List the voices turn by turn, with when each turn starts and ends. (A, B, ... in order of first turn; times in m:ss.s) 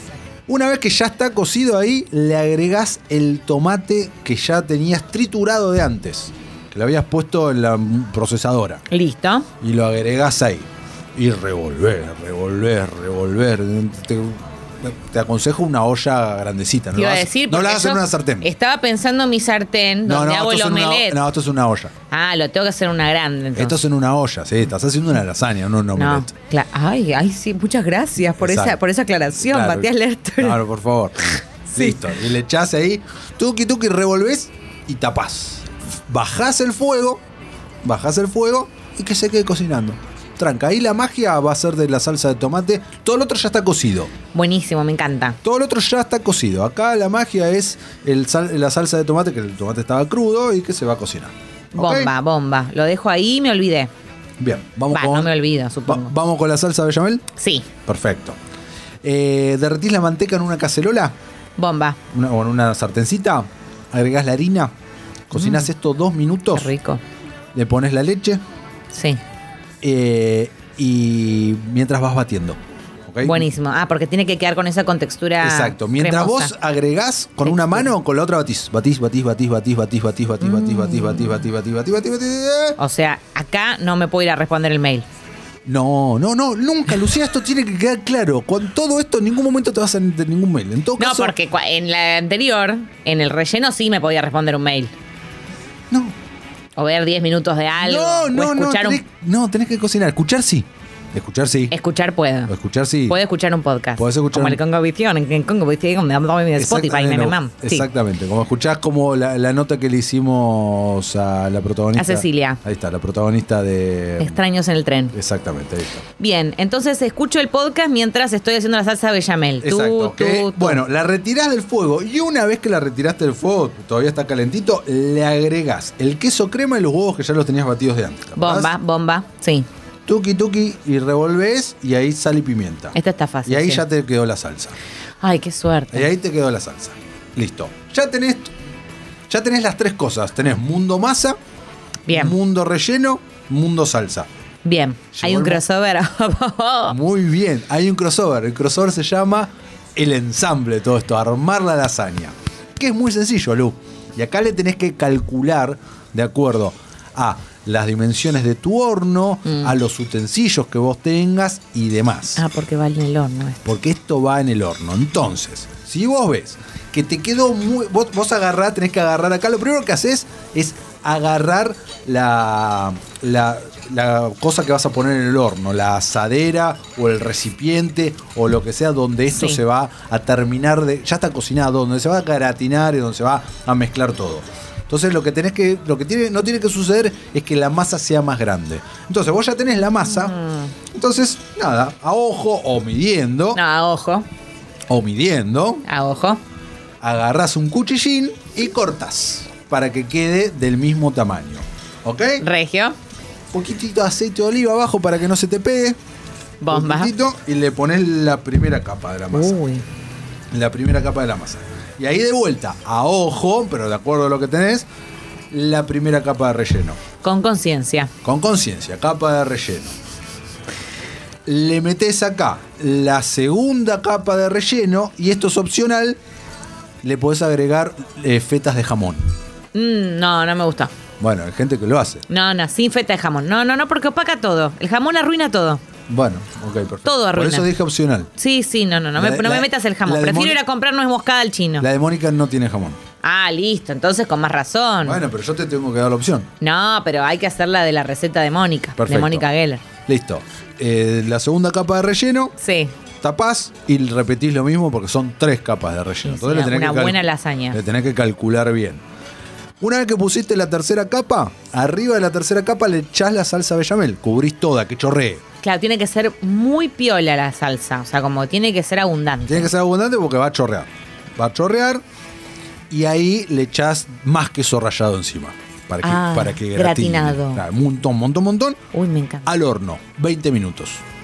0:00.5-0:08.8 A
0:08.9-0:09.5 B
0:09.6-0:18.5 A
0:16.9-0:21.2 B
0:20.0-0:21.9 A
0:22.1-0:23.8 B
0:23.6-0:26.3 A
0:26.0-0:30.6 B
0:28.3-0:28.8 A
0:29.4-0:37.2 A
0:31.7-0:32.0 B
0:37.8-0:44.1 A
0:44.3-0:45.4 B
0:45.4-0:52.1 A
0:51.7-0:53.9 B
0:54.4-0:55.3 A
0:54.9-0:56.1 B
0:55.8-0:57.2 A
0:57.4-0:57.7 B
0:57.8-0:58.4 A
0:59.0-1:01.1 A
1:01.6-1:02.0 B
1:02.1-1:04.7 A
1:05.3-1:06.7 A
1:05.3-1:05.7 B
1:06.5-1:07.0 B
1:07.5-1:08.4 A
1:08.9-1:09.2 B
1:09.8-1:13.5 A
1:13.2-1:16.5 B
1:15.4-1:22.8 A
1:17.4-1:17.9 B
1:20.4-1:21.4 B
1:22.8-1:25.0 B
1:25.6-1:31.3 A
1:31.0-1:34.9 B
1:35.9-1:36.1 A
1:36.8-1:39.0 B
1:37.8-1:41.7 A
1:41.7-1:42.5 B
1:42.5-1:43.2 A
1:43.1-1:47.8 B
1:44.0-1:44.6 A
1:46.6-1:54.4 A
1:51.9-1:52.6 B
1:54.2-1:55.2 B
1:55.1-1:56.0 A
1:56.2-2:00.8 B
1:59.6-2:08.7 A
2:08.4-2:09.6 B
2:10.0-2:14.7 A
2:12.9-2:13.8 B
2:15.2-2:16.1 B
2:15.9-2:18.5 A
2:19.3-2:21.4 A
2:22.1-2:22.4 B
2:22.1-2:24.3 A
2:24.6-2:27.0 B
2:25.1-2:25.6 A
2:26.9-2:42.4 A
2:39.4-2:39.7 B
2:42.4-2:43.6 B
2:43.6-3:10.3 A
2:59.3-2:59.6 B
3:10.0-3:10.7 B
3:10.9-3:13.6 A
3:13.5-3:14.2 B
3:14.9-3:15.8 A
3:15.8-3:16.4 B
3:17.0-3:22.4 A
3:22.4-3:23.0 B
3:23.5-3:26.0 A
3:26.6-3:27.1 B
3:26.7-3:29.6 A
3:29.3-3:29.8 B
3:30.5-3:34.8 A
3:35.5-3:37.0 A
3:37.2-3:38.1 B
3:38.2-3:40.0 A
3:41.4-3:46.2 A
3:47.0-3:49.2 A
3:49.7-3:50.9 B
3:51.2-3:52.2 A
3:52.3-3:55.8 B
3:56.1-3:58.3 A
3:57.0-3:57.7 B
3:58.4-4:01.9 B
3:59.1-4:00.6 A
4:01.8-4:03.0 A
4:03.2-4:05.2 B
4:05.0-4:06.5 A
4:06.6-4:09.8 B
4:09.0-4:09.5 A
4:10.0-4:12.5 A
4:12.6-4:12.9 B
4:13.2-4:19.0 A
4:16.2-4:17.8 B
4:19.8-4:25.4 A
4:25.6-4:29.7 B
4:29.4-4:32.0 A
4:32.9-4:38.8 A
4:36.0-4:37.6 B
4:38.9-4:39.6 B
4:39.4-4:41.0 A